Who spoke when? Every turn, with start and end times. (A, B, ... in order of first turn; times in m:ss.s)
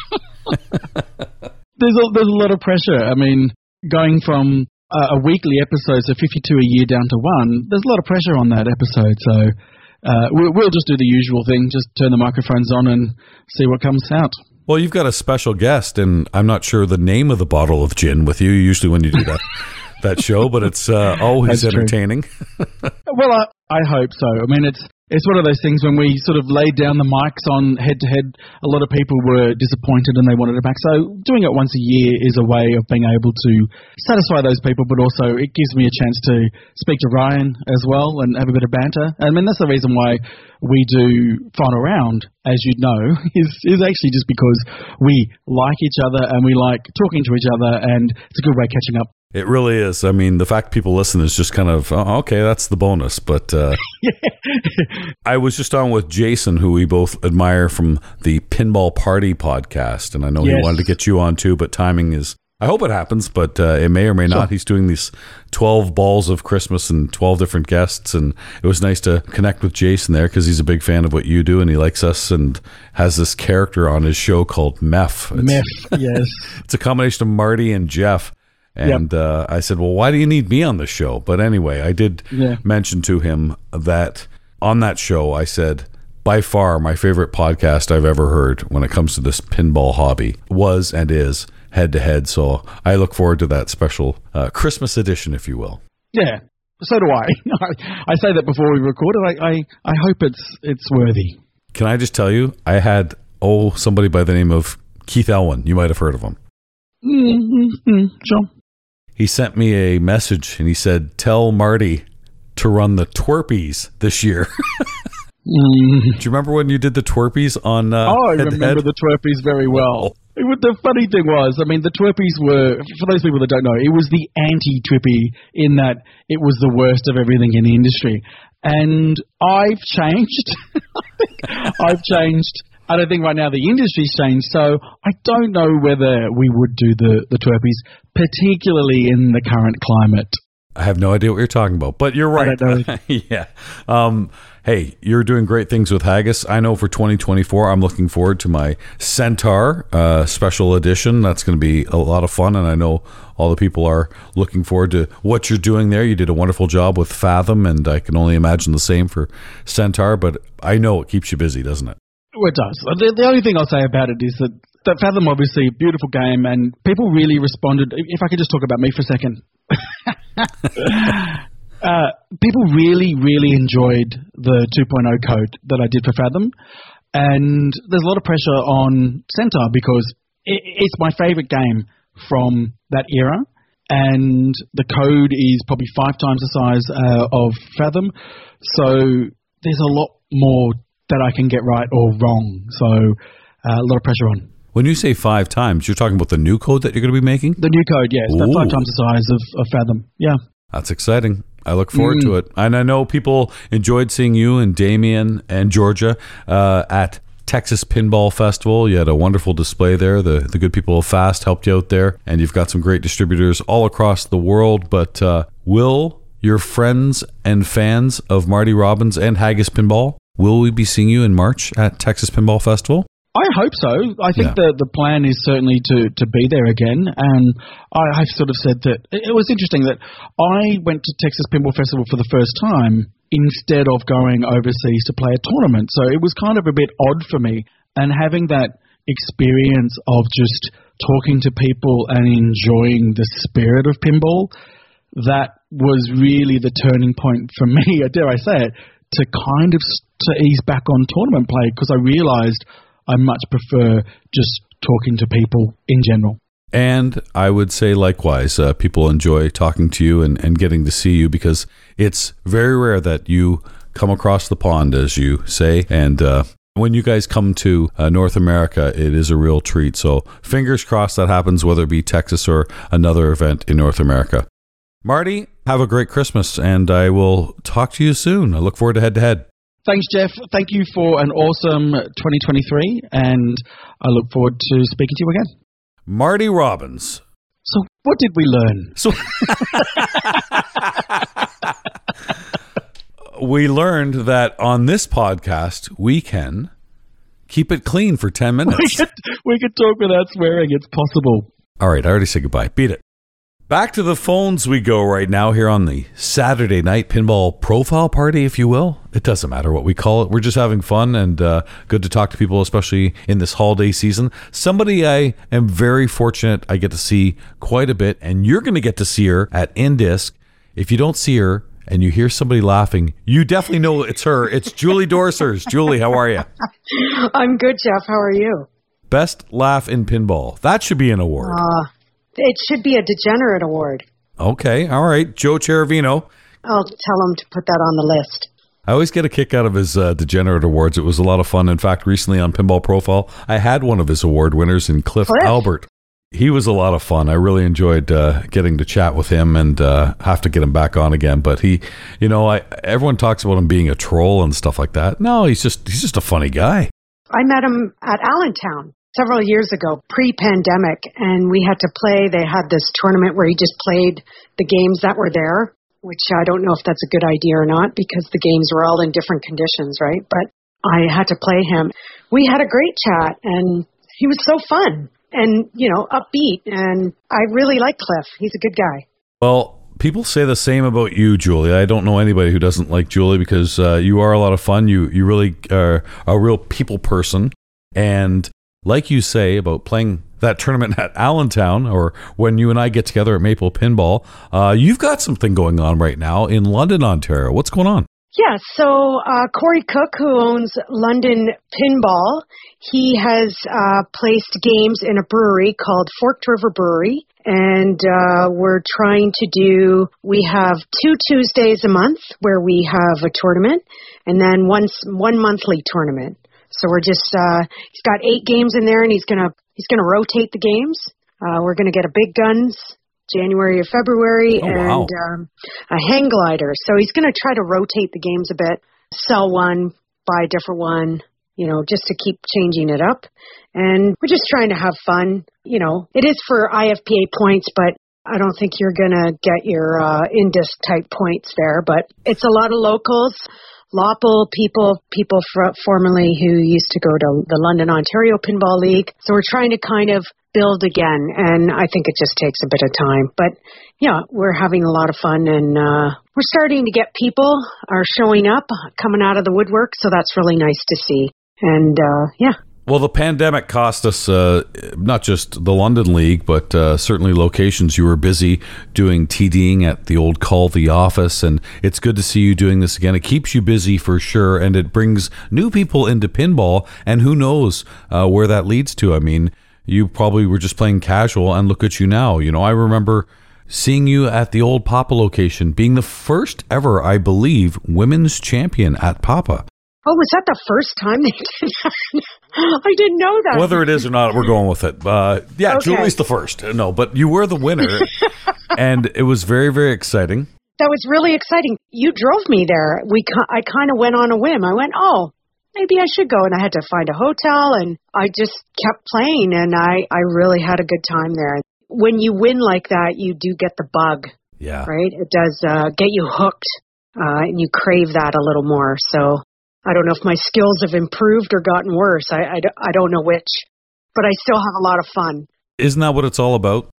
0:01.8-0:14.4 A
0:14.7-0:22.9 B
0:21.5-0:21.9 A
0:23.1-0:49.1 A
0:49.3-0:53.8 B
0:53.9-0:54.9 A
0:55.2-1:16.0 B
1:00.4-1:00.9 A
1:15.3-1:16.6 A
1:16.6-1:35.8 B
1:22.3-1:22.6 A
1:36.1-1:41.4 A
1:41.7-1:46.4 B
1:47.0-1:48.5 A
1:49.2-1:52.0 B
1:52.6-1:55.0 B
1:55.4-1:56.2 A
1:56.2-1:58.8 B
1:58.0-2:10.6 A
1:59.7-2:00.1 B
2:11.4-2:20.4 A
2:20.8-2:42.0 B
2:22.4-2:22.9 A
2:42.4-2:56.5 A
2:57.1-3:14.5 A
3:14.7-3:17.6 B
3:17.6-3:20.4 A
3:18.3-3:18.8 B
3:20.7-3:43.1 B
3:22.0-3:22.3 A
3:43.3-4:04.5 A
4:05.1-4:16.4 A
4:16.7-4:34.5 B
4:35.0-4:39.4 B
4:39.8-4:45.5 A
4:46.1-4:47.2 B
4:47.6-4:50.6 A
4:49.0-4:51.3 B
4:53.3-4:56.7 B
4:57.5-4:59.0 B
4:58.7-5:01.5 A
5:01.8-5:03.0 B
5:03.7-5:26.5 B
5:26.9-5:28.7 C
5:29.1-5:31.6 B
5:31.4-5:34.0 C
5:34.4-5:36.3 B
5:36.6-5:38.5 C
5:38.9-5:56.9 B
5:45.3-5:45.6 C
5:57.3-6:19.0 C
6:19.4-6:38.1 B
6:38.3-7:42.6 C
7:04.6-7:05.1 B
7:42.9-8:09.6 B
8:10.0-8:13.9 C
8:13.5-8:18.1 B
8:15.7-8:16.1 C
8:18.7-8:20.5 B
8:20.8-8:34.3 C
8:34.6-8:34.9 B
8:34.8-8:45.5 C
8:45.8-8:46.9 B